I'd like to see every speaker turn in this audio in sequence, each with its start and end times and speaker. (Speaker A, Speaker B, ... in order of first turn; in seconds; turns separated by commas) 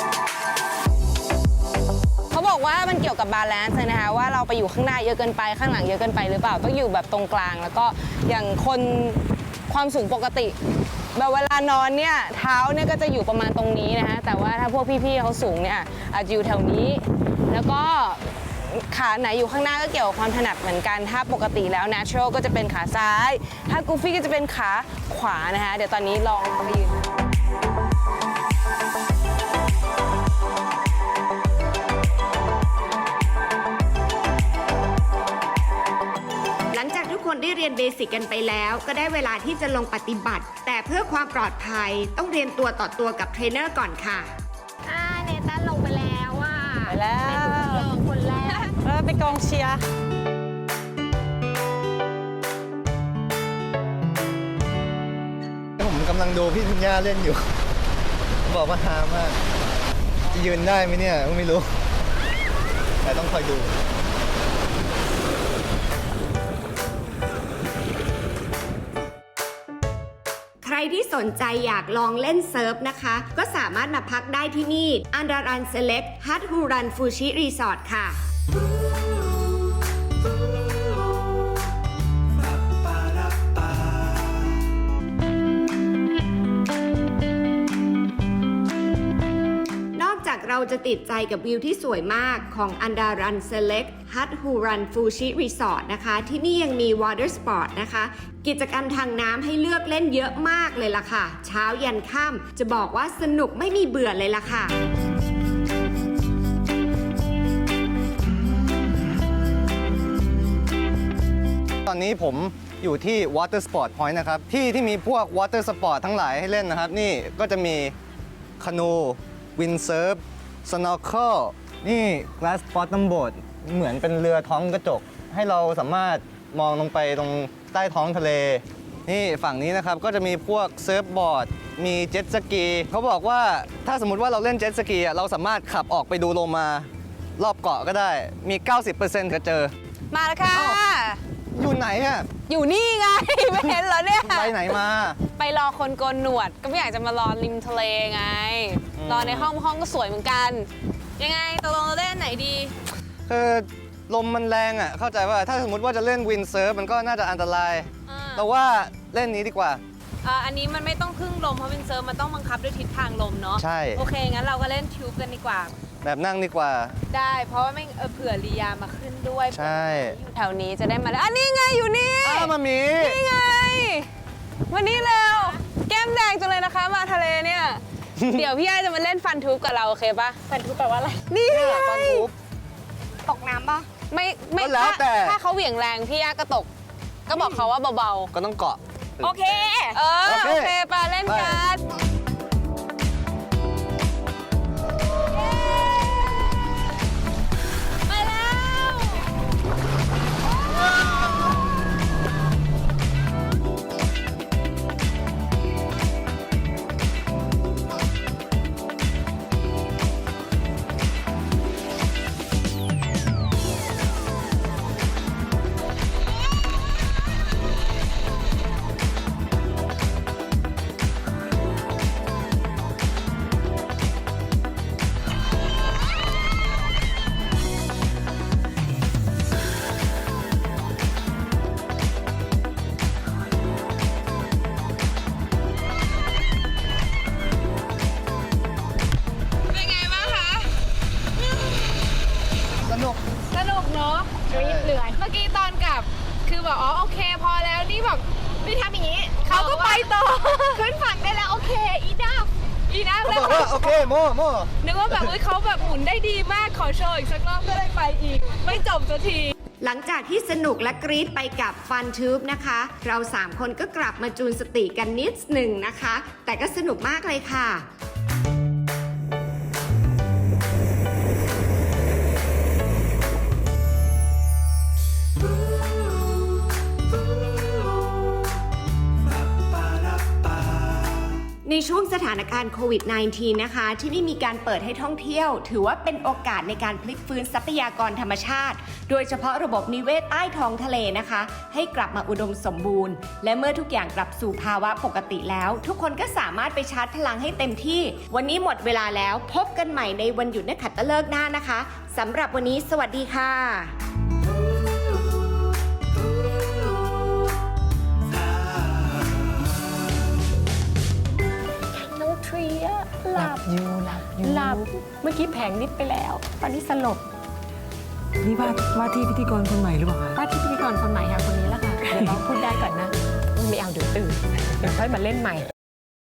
Speaker A: 2.3-10.6, Speaker A: 11.1-27.0, Speaker B: 36.7-44.3, Speaker C: 44.9-48.7, Speaker B: 45.7-46.1, Speaker D: 46.9-47.9, Speaker A: 48.5-48.7, Speaker D: 48.8-49.9, Speaker E: 55.8-57.5, Speaker E: 58.5-59.4, Speaker E: 60.3-61.7, Speaker E: 63.0-63.7, Speaker B: 70.6-78.2, Speaker B: 89.9-104.8, Speaker E: 111.8-117.9, Speaker E: 118.6-139.7, Speaker A: 140.1-141.2, Speaker E: 140.5-140.8, Speaker E: 141.5-142.3, Speaker A: 142.5-144.6, Speaker E: 144.2-145.2, Speaker A: 145.4-152.8, Speaker E: 149.0-149.5, Speaker E: 153.3-159.8, Speaker A: 158.1-158.5, Speaker A: 160.2-165.7, Speaker E: 163.6-164.0, Speaker E: 166.0-167.0, Speaker A: 167.1-174.1, Speaker E: 169.5-170.2, Speaker E: 172.2-173.2, Speaker A: 174.7-180.4, Speaker E: 178.2-178.5, Speaker C: 180.5-181.2, Speaker A: 181.3-182.3, Speaker E: 181.5-182.3, Speaker C: 183.3-183.9, Speaker A: 184.1-186.7, Speaker E: 184.6-185.4, Speaker A: 187.3-188.3, Speaker C: 187.4-187.6, Speaker E: 188.3-189.3, Speaker C: 189.2-190.0, Speaker A: 189.9-191.8, Speaker E: 190.2-191.6, Speaker A: 195.3-196.1, Speaker A: 198.1-199.2, Speaker A: 239.7-240.7, Speaker E: 242.8-243.2, Speaker A: 243.5-244.5, Speaker E: 244.5-244.9, Speaker A: 245.1-248.2, Speaker A: 249.3-250.8, Speaker C: 249.6-250.1, Speaker B: 251.9-252.5, Speaker A: 252.9-254.1, Speaker E: 253.2-255.3, Speaker A: 254.8-259.5, Speaker B: 259.8-267.9, Speaker B: 281.6-303.9, Speaker C: 312.5-313.7, Speaker F: 313.4-314.9, Speaker C: 314.4-317.2, Speaker F: 318.4-320.4, Speaker C: 320.4-323.1, Speaker B: 321.0-321.8, Speaker B: 323.6-323.9, Speaker C: 324.0-325.6